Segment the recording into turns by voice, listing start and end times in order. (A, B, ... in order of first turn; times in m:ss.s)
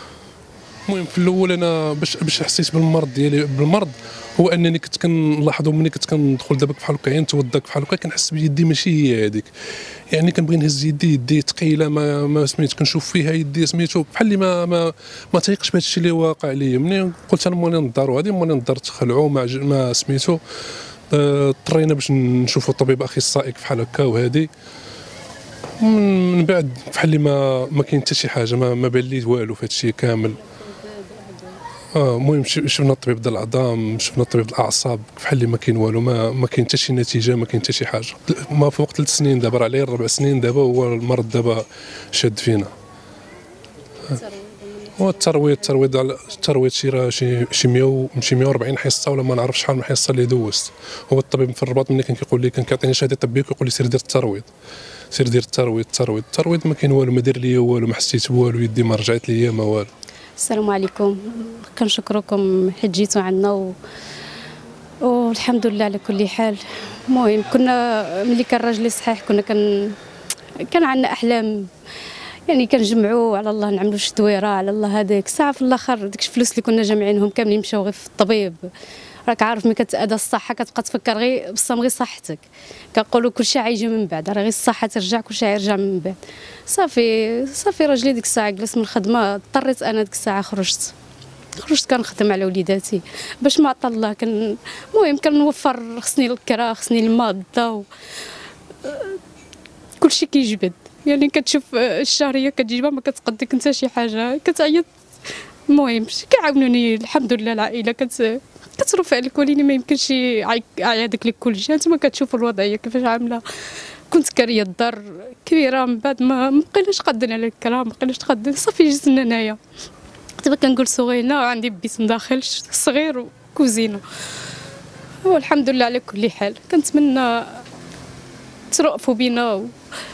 0:00.9-0:09.5 A
0:10.1-0:20.4 A
0:21.1-0:24.5 A
0:25.8-0:30.4 A
0:30.5-0:31.6 B
0:31.9-0:42.7 A
0:44.1-0:46.2 B
0:45.0-0:54.5 A
0:55.1-0:59.9 A
1:00.4-1:03.8 B
1:05.0-1:10.0 B
1:10.6-1:11.7 B
1:12.5-1:18.7 B
1:19.3-1:30.9 B
1:31.6-1:37.9 B
1:38.8-1:39.2 B
1:40.0-1:44.9 B
1:45.7-1:53.4 B
1:54.1-1:59.6 B
2:00.4-2:04.0 B
2:05.2-2:07.6 B
2:08.7-2:09.7 B